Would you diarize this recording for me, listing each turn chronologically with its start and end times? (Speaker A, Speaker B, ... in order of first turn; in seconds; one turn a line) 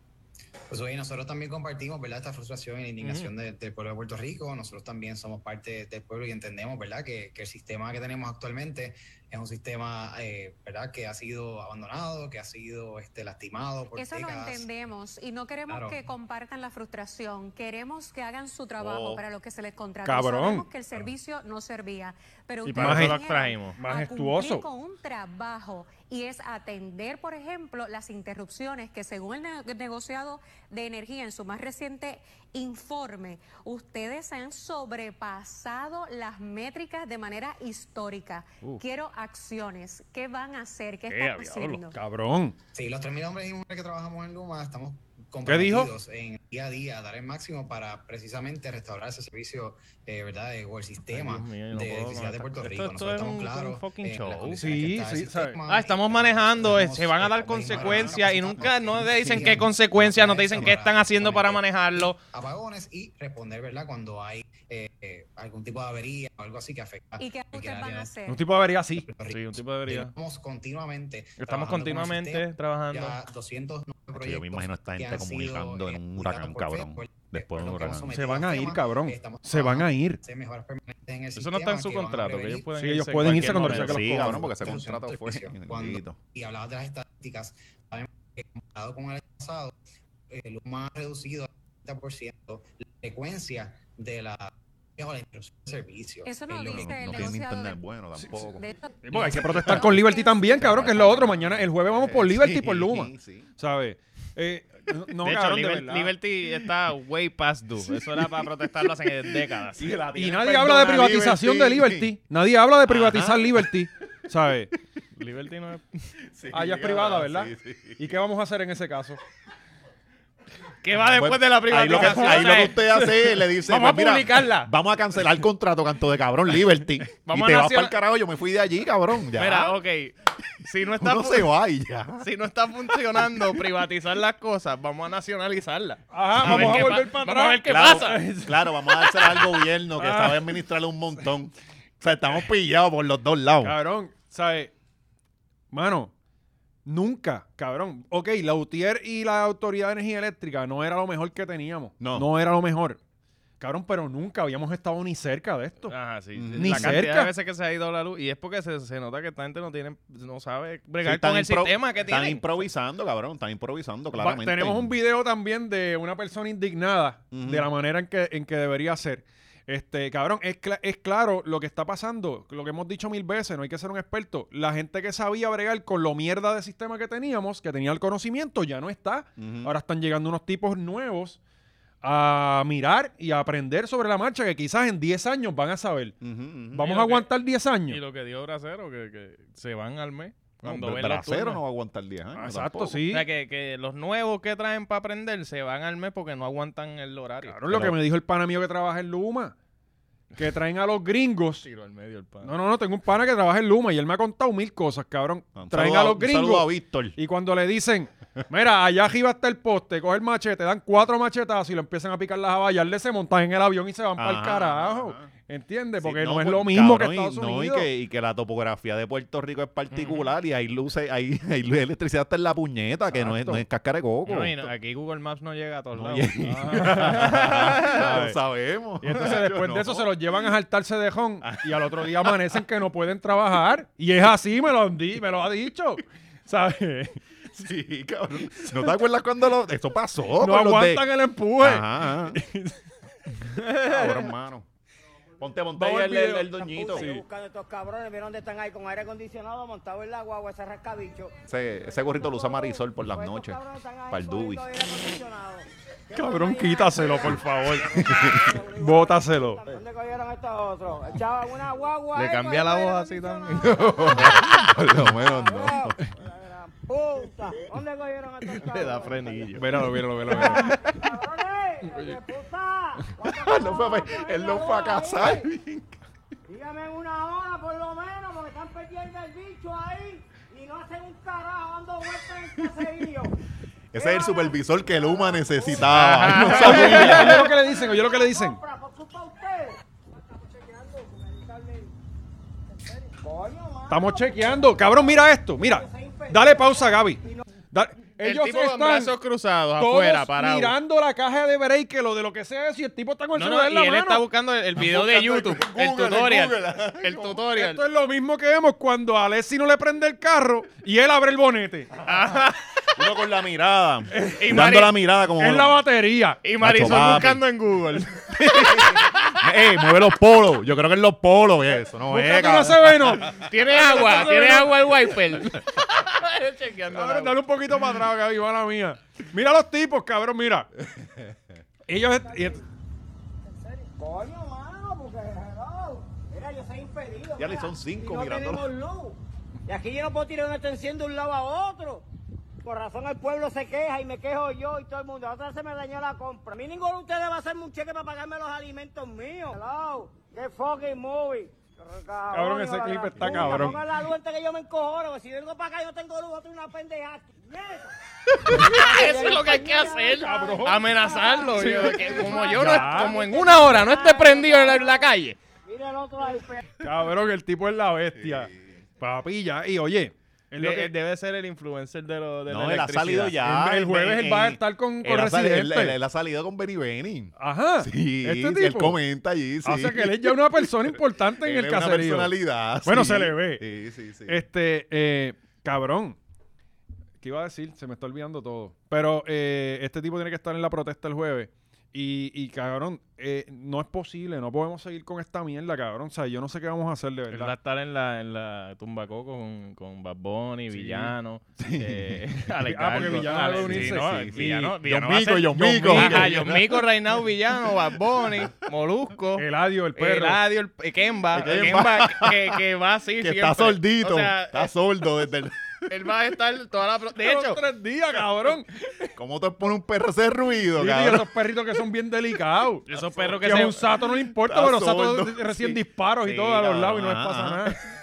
Speaker A: 0.7-14.7
Speaker B: 3.0-3.3
Speaker C: 13.9-42.0
Speaker A: 15.7-16.0
Speaker D: 18.8-19.2
Speaker E: 20.0-20.7
Speaker B: 22.6-23.8
Speaker E: 22.8-23.2
Speaker E: 23.8-24.6
Speaker B: 41.1-41.8
Speaker E: 41.9-42.6
Speaker A: 42.8-68.1
Speaker E: 45.5-45.9
Speaker B: 51.1-54.8
Speaker E: 54.6-55.6
Speaker B: 55.7-62.2
Speaker C: 67.2-68.4
Speaker E: 68.3-69.1
Speaker A: 69.0-82.7
Speaker B: 69.3-70.1
Speaker B: 71.4-73.2
Speaker D: 74.2-78.2
Speaker E: 78.1-80.2
Speaker B: 81.3-84.0
Speaker E: 82.8-84.5
Speaker D: 83.2-86.2
Speaker A: 84.0-89.8
Speaker A: 90.3-97.4
Speaker C: 96.2-97.8
Speaker D: 96.6-103.5
Speaker C: 98.4-98.9
Speaker E: 99.0-106.1
Speaker C: 99.6-100.5
Speaker B: 105.2-110.0
Speaker D: 109.8-112.1
Speaker E: 110.2-114.7
Speaker D: 112.9-113.7
Speaker B: 115.2-116.1
Speaker D: 116.3-118.2
Speaker E: 116.5-119.2
Speaker B: 120.8-124.7
Speaker D: 121.0-129.8
Speaker B: 127.2-128.0
Speaker B: 129.3-131.5
Speaker D: 131.0-132.3
Speaker B: 132.2-138.2
Speaker E: 136.1-140.6
Speaker D: 136.4-137.0
Speaker D: 137.6-143.8
Speaker E: 143.6-144.7
Speaker E: 145.7-146.1
Speaker E: 146.9-153.0
Speaker D: 152.0-152.3
Speaker E: 153.6-155.9
Speaker B: 155.9-162.6
Speaker D: 156.3-157.1
Speaker E: 156.6-157.3
Speaker D: 161.0-164.9
Speaker E: 164.1-181.4
Speaker D: 167.3-167.7
Speaker D: 179.4-179.7
Speaker E: 182.0-186.2
Speaker D: 186.2-186.9
Speaker E: 186.7-188.0
Speaker B: 186.8-187.3
Speaker B: 187.9-191.6
Speaker D: 190.6-193.0
Speaker E: 192.3-193.2
Speaker B: 193.1-197.6
Speaker E: 197.4-199.6
Speaker D: 197.7-198.0
Speaker E: 200.3-201.7
Speaker B: 201.6-202.5
Speaker E: 202.4-217.9
Speaker D: 205.6-207.2
Speaker D: 214.2-215.3
Speaker D: 216.0-224.7
Speaker B: 219.9-220.3
Speaker E: 223.1-223.6
Speaker B: 224.3-226.3
Speaker D: 225.9-230.4
Speaker E: 226.4-228.4
Speaker B: 227.0-228.1
Speaker E: 229.0-237.2
Speaker D: 231.4-232.6
Speaker D: 237.6-241.1
Speaker E: 240.4-242.8
Speaker D: 241.6-242.4
Speaker E: 243.3-243.6
Speaker B: 243.7-244.2
Speaker D: 243.8-244.7
Speaker D: 245.4-247.1
Speaker F: 245.8-264.3
Speaker E: 246.9-247.2
Speaker D: 251.5-253.6
Speaker D: 254.1-254.6
Speaker E: 256.1-258.1
Speaker D: 257.9-258.6
Speaker E: 258.8-259.6
Speaker B: 262.1-264.8
Speaker D: 263.6-266.0
Speaker F: 265.1-269.6
Speaker B: 268.5-270.8
Speaker E: 269.6-270.7
Speaker F: 270.3-275.5
Speaker D: 273.2-276.0
Speaker F: 276.5-283.4
Speaker D: 283.9-287.4
Speaker F: 284.0-291.9
Speaker B: 285.8-287.4
Speaker E: 286.3-288.6
Speaker F: 293.0-297.4
Speaker E: 293.9-299.1
Speaker B: 298.2-300.8
Speaker E: 299.8-304.2
Speaker B: 303.4-307.8
Speaker D: 304.8-307.4
Speaker E: 307.5-312.0
Speaker B: 312.0-312.6
Speaker D: 312.9-315.8
Speaker E: 314.1-314.6
Speaker B: 314.4-314.9
Speaker E: 315.4-316.4
Speaker B: 316.4-319.4
Speaker D: 316.6-317.4
Speaker D: 318.3-323.5
Speaker E: 322.1-324.9
Speaker B: 323.4-327.4
Speaker E: 326.9-330.7
Speaker D: 331.0-331.3
Speaker E: 331.9-332.6
Speaker F: 332.2-332.6
Speaker F: 333.6-342.1
Speaker D: 337.4-338.7
Speaker F: 342.6-357.9
Speaker E: 352.3-353.8
Speaker D: 353.2-353.6
Speaker B: 358.4-365.4
Speaker F: 358.5-365.1
Speaker E: 360.2-363.2
Speaker F: 365.6-366.7
Speaker E: 366.8-370.9
Speaker D: 368.1-368.8
Speaker B: 370.6-373.4
Speaker D: 372.5-384.4
Speaker E: 373.4-375.9
Speaker E: 377.4-379.0
Speaker E: 379.6-383.6
Speaker E: 384.3-386.2
Speaker E: 387.2-397.5
Speaker B: 397.3-409.4
Speaker E: 400.7-401.1
Speaker D: 401.6-402.2
Speaker E: 402.7-404.1
Speaker D: 403.0-406.9
Speaker E: 405.6-406.6
Speaker E: 409.4-410.4
Speaker B: 410.0-414.7
Speaker D: 411.3-412.6
Speaker D: 413.2-415.9
Speaker B: 415.9-417.6
Speaker E: 417.2-418.7
Speaker D: 419.1-421.6
Speaker E: 420.8-427.8
Speaker B: 422.9-423.9
Speaker D: 422.9-423.2
Speaker D: 424.2-427.8